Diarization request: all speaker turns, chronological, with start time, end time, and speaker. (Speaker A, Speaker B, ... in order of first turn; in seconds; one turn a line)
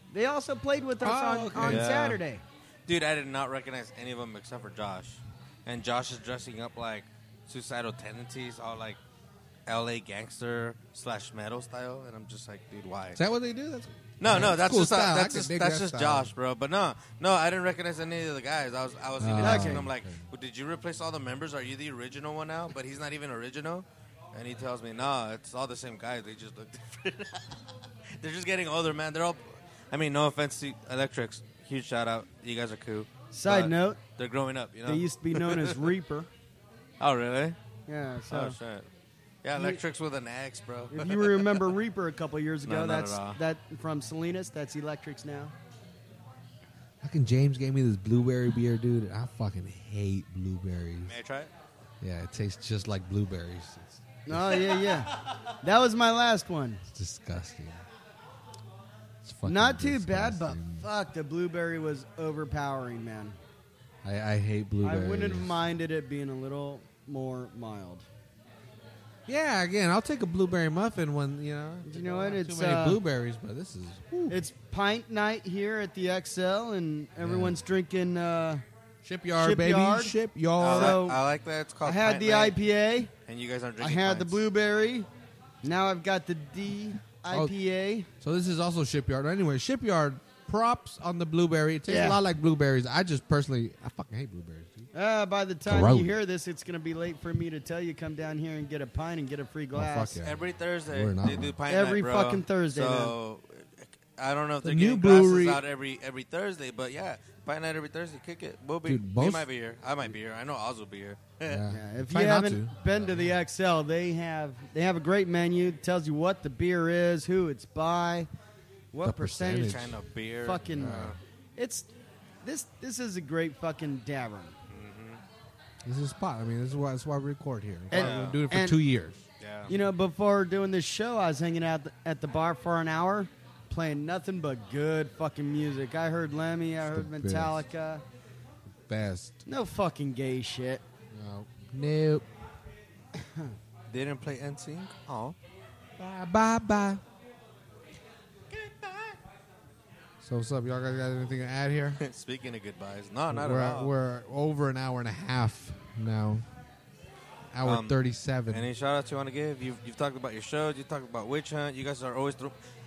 Speaker A: 0.1-2.4
Speaker B: 1.0-2.2
Speaker C: 1.6-2.2
Speaker C: 2.9-9.0
Speaker C: 9.7-13.2
Speaker B: 13.2-16.3
Speaker C: 14.2-27.6
Speaker B: 19.2-20.2
Speaker A: 19.4-19.9
Speaker C: 28.2-35.9
Speaker A: 33.3-34.0
Speaker A: 34.9-36.3
Speaker C: 37.0-37.6
Speaker A: 37.9-38.5
Speaker C: 38.3-38.9
Speaker C: 39.4-41.7
Speaker A: 39.5-39.8
Speaker A: 40.9-45.5
Speaker C: 42.6-43.4
Speaker B: 47.0-51.1
Speaker C: 51.0-51.5
Speaker B: 52.0-54.8
Speaker A: 54.3-56.8
Speaker B: 56.9-57.8
Speaker B: 59.2-60.8
Speaker A: 59.4-63.4
Speaker B: 64.0-65.6
Speaker A: 64.8-68.0
Speaker B: 69.3-74.4
Speaker A: 71.8-73.0
Speaker A: 74.3-78.6
Speaker B: 77.2-77.6
Speaker B: 79.0-81.0
Speaker A: 79.4-81.2
Speaker C: 80.6-82.6
Speaker A: 81.8-83.1
Speaker C: 83.3-84.4
Speaker A: 83.8-85.1
Speaker A: 85.6-88.1
Speaker B: 88.2-94.9
Speaker A: 91.9-92.2
Speaker A: 94.9-100.2
Speaker B: 95.7-96.1
Speaker B: 99.7-101.6
Speaker C: 100.2-111.7
Speaker A: 101.7-103.2
Speaker B: 104.6-105.6
Speaker B: 108.9-109.5
Speaker B: 111.5-113.4
Speaker A: 111.7-118.3
Speaker A: 118.9-119.9
Speaker B: 119.0-119.9
Speaker C: 119.5-121.2
Speaker A: 120.4-121.9
Speaker B: 120.8-121.1
Speaker A: 122.4-124.5
Speaker C: 124.7-125.2
Speaker B: 125.8-129.2
Speaker A: 127.9-128.8
Speaker C: 127.9-128.4
Speaker C: 129.4-129.7
Speaker A: 129.7-138.0
Speaker B: 136.8-137.7
Speaker B: 138.9-139.4
Speaker A: 139.4-140.8
Speaker B: 141.1-142.2
Speaker A: 143.1-143.5
Speaker C: 143.9-145.3
Speaker B: 146.0-147.0
Speaker C: 148.5-149.2
Speaker B: 150.2-152.0
Speaker C: 152.0-153.9
Speaker B: 153.3-156.4
Speaker B: 157.5-158.7
Speaker C: 157.6-157.9
Speaker C: 158.5-162.5